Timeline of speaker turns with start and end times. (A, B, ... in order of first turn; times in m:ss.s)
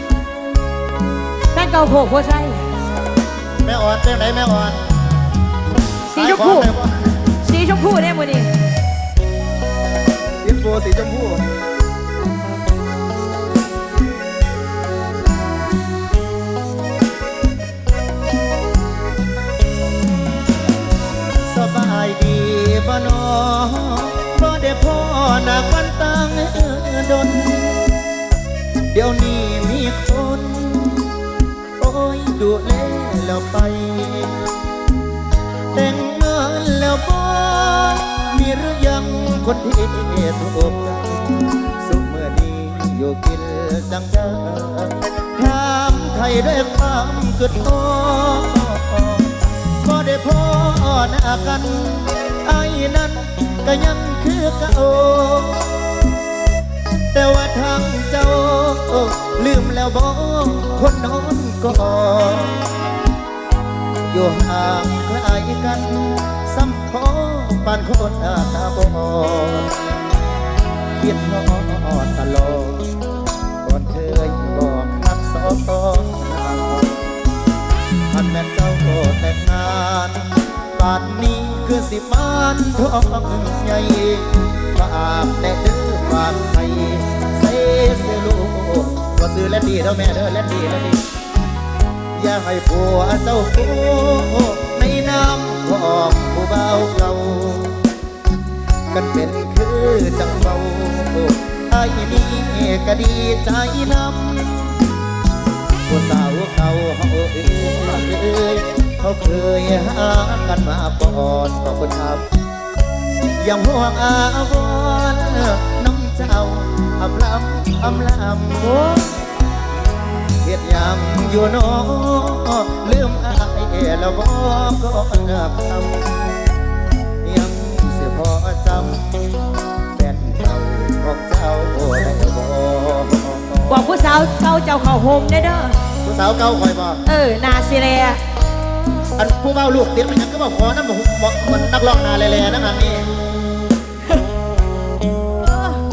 0:01.5-0:02.7 A
0:03.6-0:04.8 B
0:06.1-0:06.7 A
0:06.1-0:07.1 B
0:07.3-0:08.5 A
0:10.4-0:11.5 B
0:21.5-0:28.0 B
0:28.9-0:31.1 B
0:31.8-0:34.4 B
0:35.7-0:41.1 B
0:41.8-0:49.3 B
0:49.8-0:55.9 B
0:57.1-1:02.5 B
1:04.1-1:09.7 B
1:11.0-1:12.8 B
1:13.6-1:17.0 B
1:18.1-1:31.0 B
1:32.1-1:37.8 B
1:38.9-1:44.8 B
1:45.9-1:52.2 B
1:53.4-1:58.8 B
1:58.6-1:59.1 A
2:00.4-2:06.4 B
2:07.2-2:09.1 B
2:09.9-2:13.9 B
2:13.7-2:15.8 A
2:16.0-2:17.0 B
2:17.0-2:18.2 A
2:19.2-2:23.1 B
2:25.4-2:25.8 A